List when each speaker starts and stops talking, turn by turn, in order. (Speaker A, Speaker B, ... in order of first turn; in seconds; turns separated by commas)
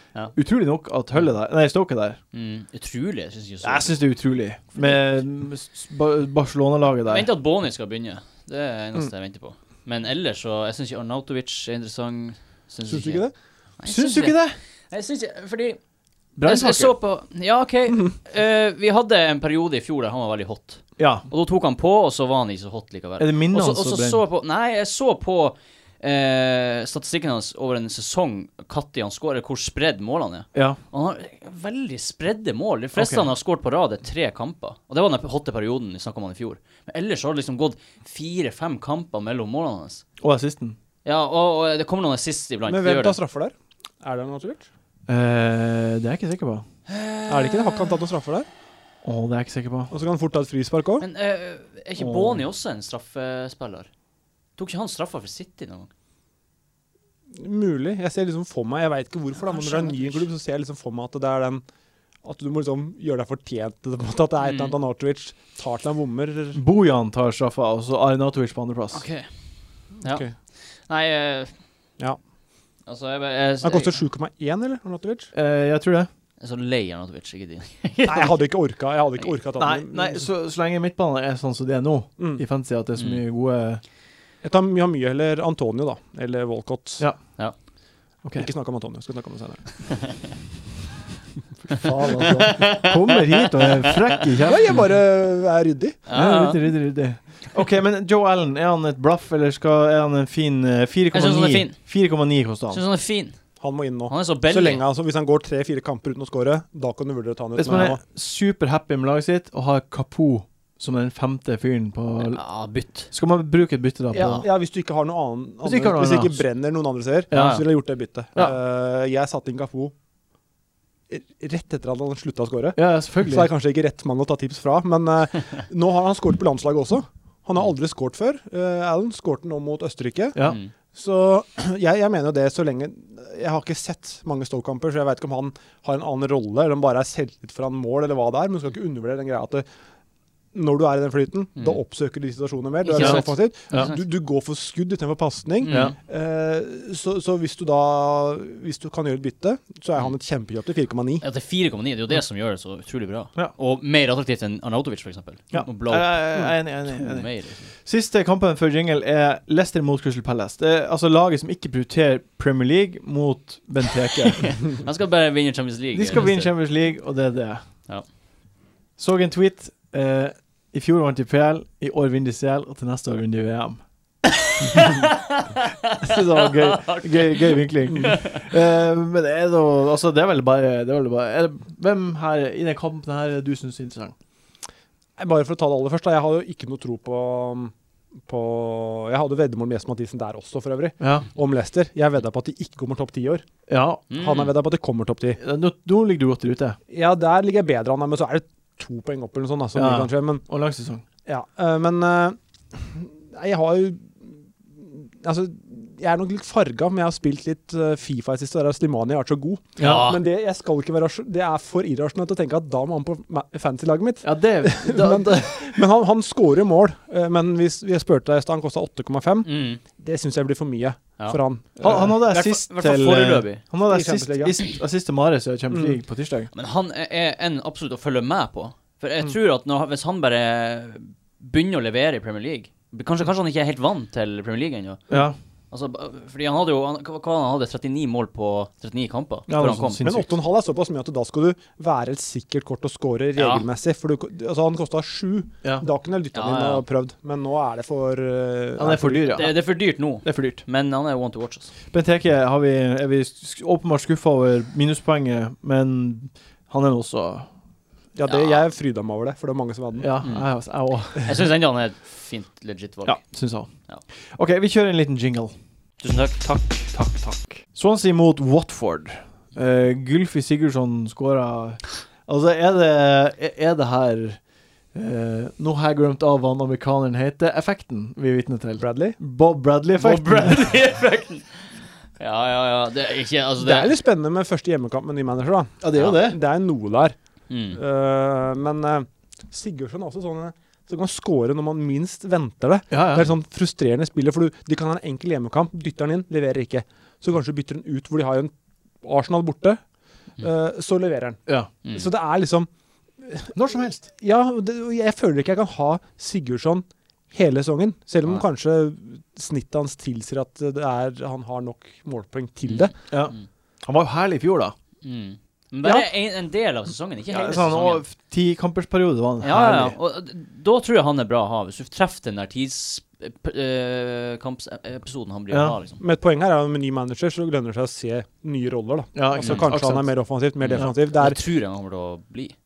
Speaker A: 0.3-2.2, Speaker B: 2.3-4.0, Speaker A: 3.6-7.3, Speaker B: 7.1-13.2, Speaker C: 12.9-13.3, Speaker B: 13.8-15.8, Speaker A: 13.8-14.6, Speaker A: 16.4-16.9, Speaker B: 16.4-40.0, Speaker A: 21.0-21.2, Speaker A: 23.2-24.2, Speaker A: 30.5-30.8, Speaker A: 33.0-33.3, Speaker A: 40.2-40.8, Speaker B: 41.0-43.2, Speaker C: 42.7-44.7, Speaker A: 45.1-46.6, Speaker B: 46.9-48.0, Speaker C: 47.3-48.5, Speaker A: 49.0-49.9, Speaker C: 49.9-51.0, Speaker B: 51.0-53.9, Speaker A: 52.0-52.4, Speaker B: 54.6-55.9, Speaker C: 57.4-61.6, Speaker B: 59.5-60.2, Speaker C: 62.2-66.6, Speaker B: 64.4-64.7, Speaker A: 66.5-69.0, Speaker B: 68.9-69.3, Speaker B: 70.0-71.5, Speaker C: 70.0-70.3, Speaker B: 72.8-74.0, Speaker C: 73.6-75.3, Speaker A: 75.3-76.1, Speaker B: 76.4-78.4, Speaker C: 78.0-80.3, Speaker A: 79.6-83.8, Speaker C: 82.2-82.4, Speaker B: 83.0-83.2, Speaker C: 84.4-87.0, Speaker A: 88.2-88.5, Speaker C: 88.3-89.8, Speaker B: 89.9-90.2, Speaker C: 91.7-92.5, Speaker A: 91.8-94.8, Speaker B: 92.2-94.2, Speaker C: 94.4-96.0, Speaker B: 96.1-96.6, Speaker A: 96.1-102.8, Speaker B: 101.1-101.8, Speaker B: 102.7-103.4, Speaker C: 103.6-108.0, Speaker B: 104.1-104.8, Speaker A: 107.5-112.4, Speaker B: 112.2-113.1, Speaker A: 113.1-114.5, Speaker C: 114.1-119.9, Speaker A: 115.6-116.4, Speaker B: 117.3-117.6, Speaker A: 117.3-117.6, Speaker C: 121.1-139.7, Speaker A: 122.8-123.5, Speaker A: 130.3-130.6, Speaker B: 130.4-130.7, Speaker C: 140.5-151.2, Speaker B: 142.8-144.0, Speaker A: 143.0-143.9, Speaker B: 145.6-145.9, Speaker A: 145.7-145.9, Speaker B: 151.2-157.7, Speaker A: 155.5-164.6, Speaker B: 164.4-166.6, Speaker A: 165.9-167.6, Speaker A: 169.0-173.8, Speaker B: 174.6-178.4, Speaker A: 176.0-184.1, Speaker C: 185.2-187.7, Speaker C: 188.3-193.4, Speaker A: 191.0-191.3, Speaker A: 193.7-194.0, Speaker B: 194.1-194.5, Speaker C: 194.1-195.4, Speaker A: 195.4-196.8, Speaker C: 196.9-200.4, Speaker A: 199.7-201.0, Speaker C: 201.2-222.1, Speaker A: 209.8-210.1, Speaker B: 209.8-210.2, Speaker A: 214.2-215.8, Speaker B: 219.4-219.8, Speaker B: 221.2-223.6, Speaker A: 221.8-226.5, Speaker C: 223.8-224.7, Speaker C: 225.7-226.0, Speaker B: 226.5-235.0, Speaker A: 235.1-235.3, Speaker B: 235.7-240.1, Speaker A: 239.5-240.3, Speaker C: 240.0-249.5, Speaker B: 243.4-243.6, Speaker B: 246.3-246.8, Speaker A: 248.8-249.6, Speaker B: 249.3-251.7, Speaker A: 250.2-250.6, Speaker A: 251.9-257.5, Speaker C: 258.1-260.2, Speaker B: 258.2-258.6, Speaker A: 260.0-261.3, Speaker B: 261.1-263.2, Speaker A: 263.0-263.7, Speaker A: 264.3-265.5, Speaker B: 266.0-267.6, Speaker A: 267.7-274.4, Speaker A: 274.9-280.7, Speaker C: 278.8-279.2, Speaker B: 280.0-283.9, Speaker C: 283.6-287.1, Speaker A: 285.8-286.4, Speaker B: 287.5-287.8, Speaker C: 287.7-298.5, Speaker A: 292.9-293.3, Speaker C: 299.0-299.8, Speaker C: 300.4-301.4, Speaker C: 301.9-302.7, Speaker C: 303.2-303.5, Speaker A: 303.5-304.0, Speaker C: 304.2-312.9, Speaker B: 312.7-313.4, Speaker A: 313.1-314.7, Speaker B: 315.0-318.0, Speaker A: 317.3-319.9, Speaker B: 319.4-326.0, Speaker A: 325.5-325.8, Speaker C: 326.0-331.4, Speaker A: 329.1-330.1, Speaker B: 329.4-329.7, Speaker B: 330.6-332.5